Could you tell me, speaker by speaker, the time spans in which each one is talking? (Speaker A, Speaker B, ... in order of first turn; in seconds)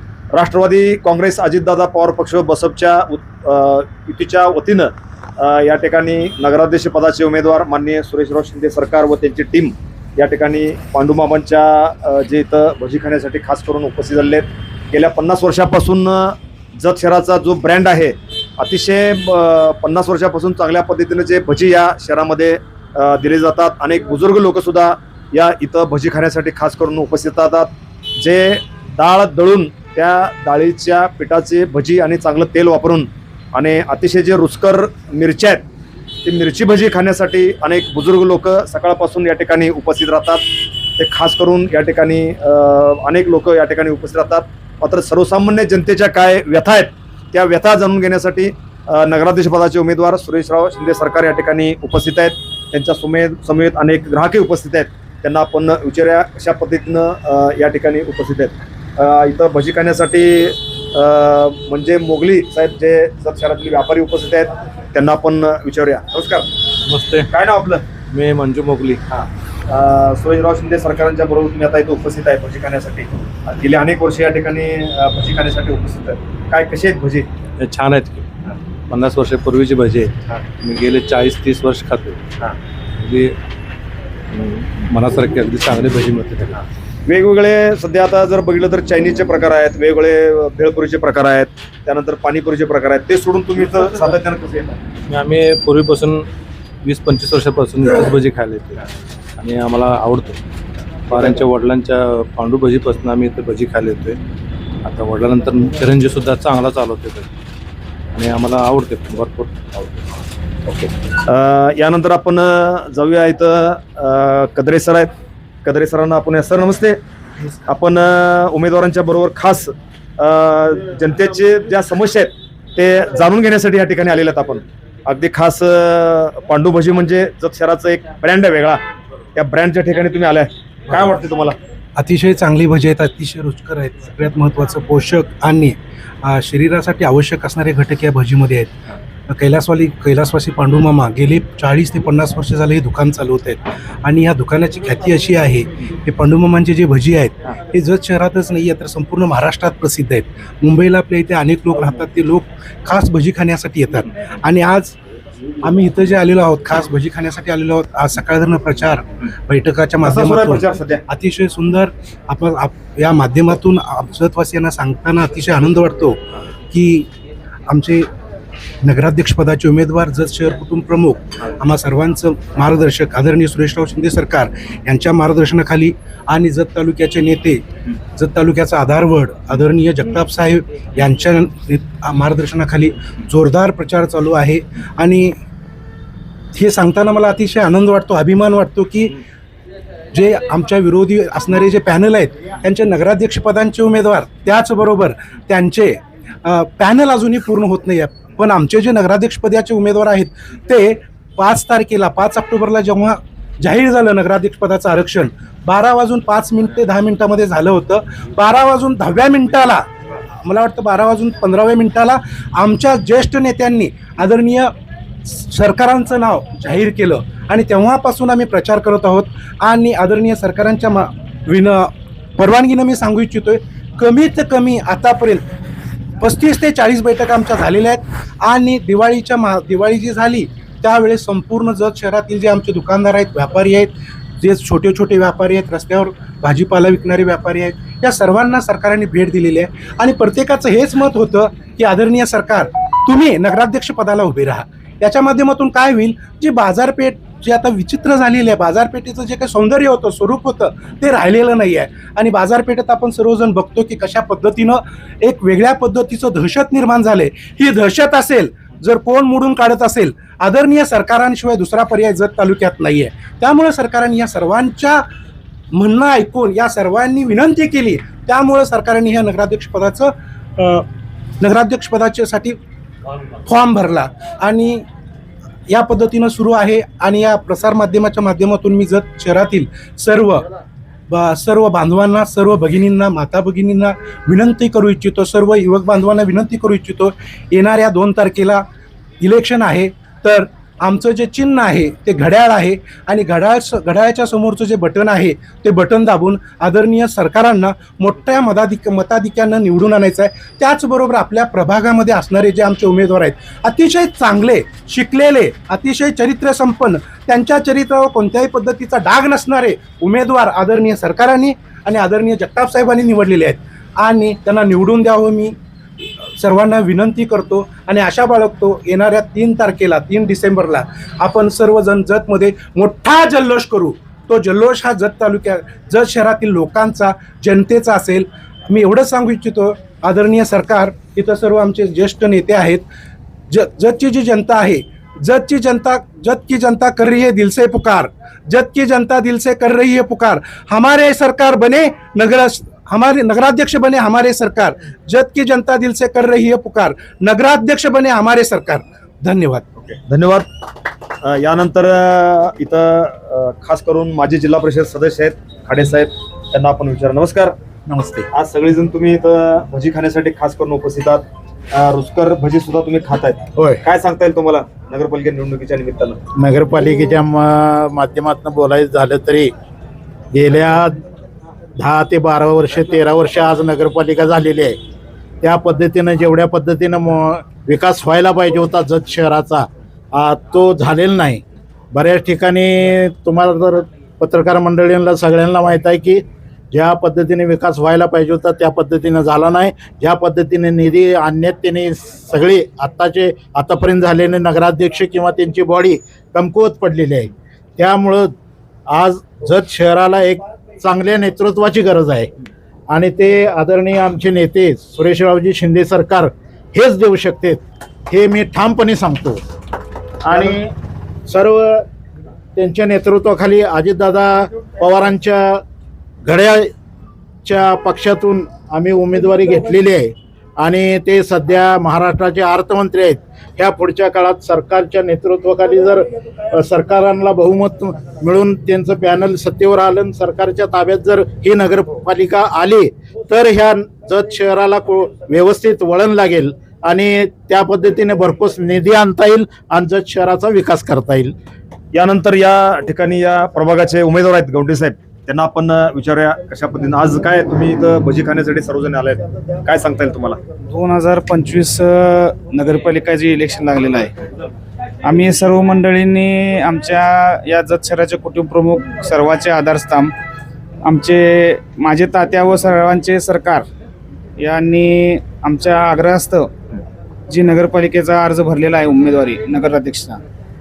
Speaker A: 0.3-35.6, 36.2-40.5, 41.0-66.5, 67.3-67.8, 69.1-77.3, 87.1-94.8, 110.7-115.1, 115.7-117.0, 117.7-128.8, 129.3-131.6, 160.0-161.0, 349.8-350.5, 351.2-357.5, 358.3-366.2, 410.3-410.6, 441.9-450.4
Speaker B: 66.9-67.3, 68.1-69.0, 77.6-78.3, 78.9-82.2, 83.0-83.3, 84.3-86.6, 95.1-96.2, 96.8-98.8, 99.4-100.4, 101.1-104.2, 104.8-107.3, 108.1-110.0
Speaker C: 132.0-138.8, 139.3-155.0, 155.6-167.1, 167.7-168.1, 168.8-177.6, 178.1-185.4, 186.5-189.2, 190.1-209.8, 210.4-214.7, 215.2-225.4, 226.2-265.1, 265.7-270.9, 271.4-272.6, 273.5-274.9, 275.7-280.5, 281.1-288.6, 289.2-315.6, 316.4-332.8, 333.5-349.7
Speaker D: 363.6-363.8, 366.4-369.5, 370.3-371.0, 371.8-374.8, 375.4-398.4, 398.9-402.3, 402.9-409.4, 410.3-410.6, 411.3-411.9, 412.6-415.6, 416.2-416.7, 417.4-441.3
Speaker E: 450.7-454.1, 455.1-460.1, 460.9-463.7, 464.4-466.5, 467.3-470.2